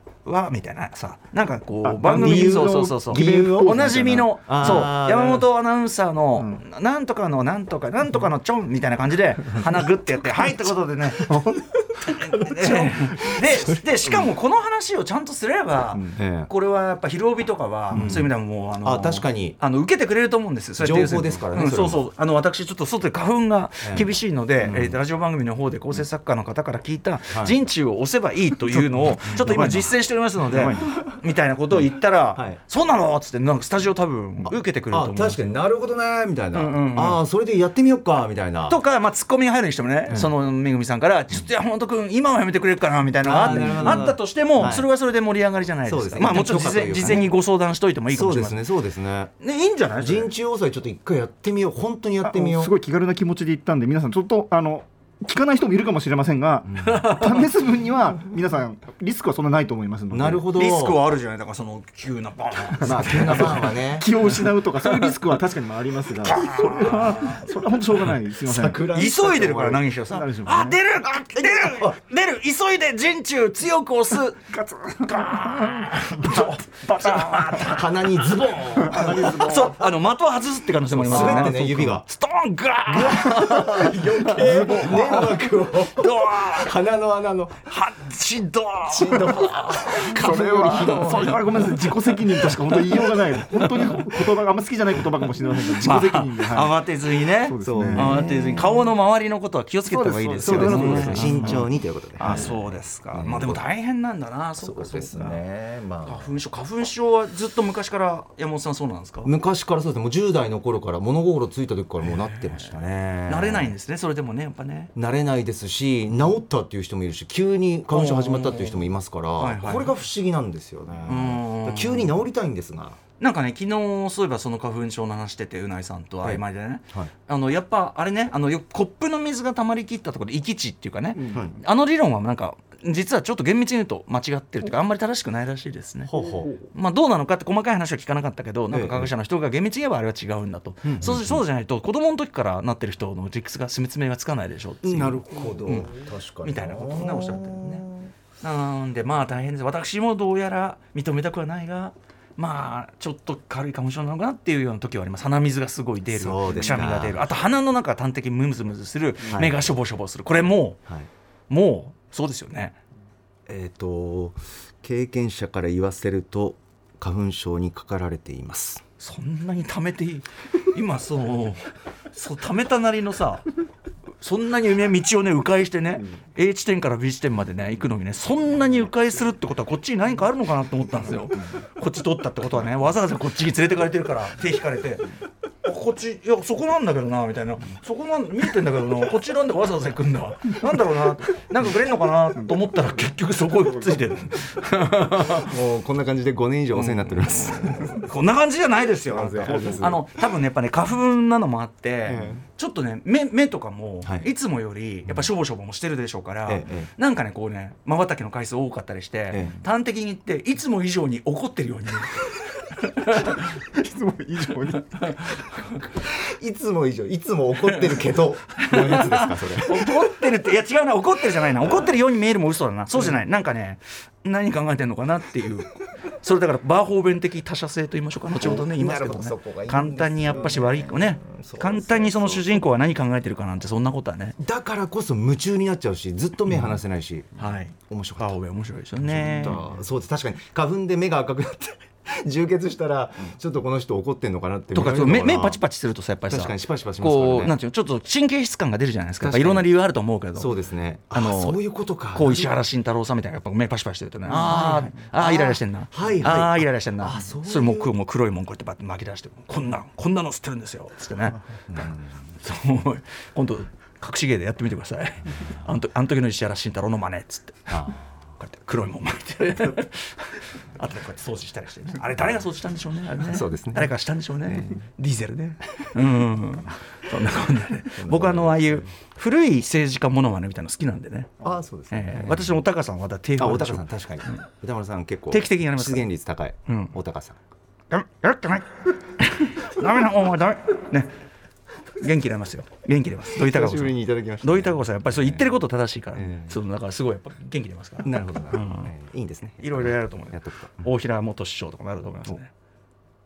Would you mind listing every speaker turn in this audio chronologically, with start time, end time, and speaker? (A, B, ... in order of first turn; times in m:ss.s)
0:00.2-0:11.4 A
0:01.8-0:04.8 B
0:02.0-0:05.5 C
0:11.2-0:11.7 B
0:12.0-0:35.4 A
0:12.4-0:13.0 B
0:16.1-0:16.5 C
0:17.9-0:19.6 C
0:20.8-0:22.0 C
0:23.8-0:24.1 C
0:24.6-0:25.0 C
0:27.3-0:27.6 C
0:29.0-0:29.9 C
0:29.4-0:29.8 B
0:30.5-0:30.9 C
0:34.4-0:38.8 C
0:36.5-0:37.2 A
0:38.7-0:48.6 A
0:43.2-0:44.9 C
0:43.4-0:44.1 B
0:45.9-0:47.3 C
0:48.1-0:49.3 C
0:49.4-0:50.3 A
0:50.0-0:52.7 C
0:52.2-1:00.4 B
0:56.8-0:57.0 C
0:56.8-0:57.5 A
1:00.1-1:01.0 C
1:00.6-1:03.6 A
1:02.8-1:08.8 B
1:02.8-1:04.1 C
1:04.8-1:05.1 A
1:06.2-1:07.5 A
1:08.4-1:09.9 C
1:08.9-1:14.5 A
1:10.1-1:10.8 B
1:11.3-1:12.0 C
1:14.5-1:17.6 B
1:15.0-1:26.7 A
1:17.5-1:19.3 C
1:18.9-1:19.8 B
1:20.9-1:22.1 C
1:21.1-1:21.7 B
1:22.9-1:27.6 C
1:24.5-1:25.1 B
1:27.7-1:34.2 A
1:28.9-1:31.7 C
1:29.9-1:36.8 B
1:35.8-1:41.7 A
1:37.3-1:38.2 B
1:37.6-1:38.8 C
1:39.9-1:43.6 C
1:40.4-1:41.6 B
1:42.2-1:45.4 A
1:44.6-1:46.3 C
1:46.0-1:49.3 A
1:49.2-1:53.8 C
1:52.0-1:52.7 A
1:53.3-1:54.9 A
1:55.0-2:03.0 C
1:57.9-2:00.0 A
2:01.1-2:02.2 A
2:03.2-2:25.9 A
2:06.2-2:07.1 C
2:11.3-2:11.6 C
2:16.1-2:16.5 C
2:18.7-2:19.1 C
2:20.8-2:21.4 C
2:24.8-2:28.1 C
2:26.4-2:27.9 A
2:28.4-2:40.8 A
2:36.1-2:37.2 C
2:39.2-2:39.7 C
2:41.5-2:42.8 A
2:43.5-2:48.8 C
2:49.0-2:53.4 A
2:54.2-3:05.1 A
3:05.6-3:15.6 A
3:15.3-3:18.1 C
3:16.7-3:33.6 A
3:19.1-3:20.0 C
3:22.1-3:22.4 C
3:26.5-3:26.9 C
3:29.3-3:29.6 C
3:33.6-3:35.2 B
3:34.8-3:35.8 A
3:35.9-3:40.1 C
3:37.6-3:54.4 A
3:48.3-3:52.6 C
3:54.4-3:58.4 C
3:57.4-3:59.7 A
3:59.0-4:05.6 C
4:04.7-4:10.6 A
4:06.3-4:07.6 C
4:09.2-4:09.7 C
4:10.4-4:12.5 C
4:11.1-4:11.6 A
4:12.1-4:21.4 A
4:14.2-4:17.9 C
4:21.7-4:22.2 C
4:22.4-4:41.3 A
4:27.7-4:28.0 C
4:33.2-4:33.9 C
4:34.4-4:34.8 C
4:38.0-4:38.9 C
4:41.4-4:42.6 C
4:41.9-4:44.4 A
4:43.4-4:47.4 C
4:45.3-4:46.1 A
4:46.7-4:47.0 A
4:47.9-4:51.1 A
4:52.0-4:58.9 A
4:53.4-4:55.6 C
4:56.2-4:56.6 C
4:58.0-5:00.8 C
4:59.6-5:02.5 A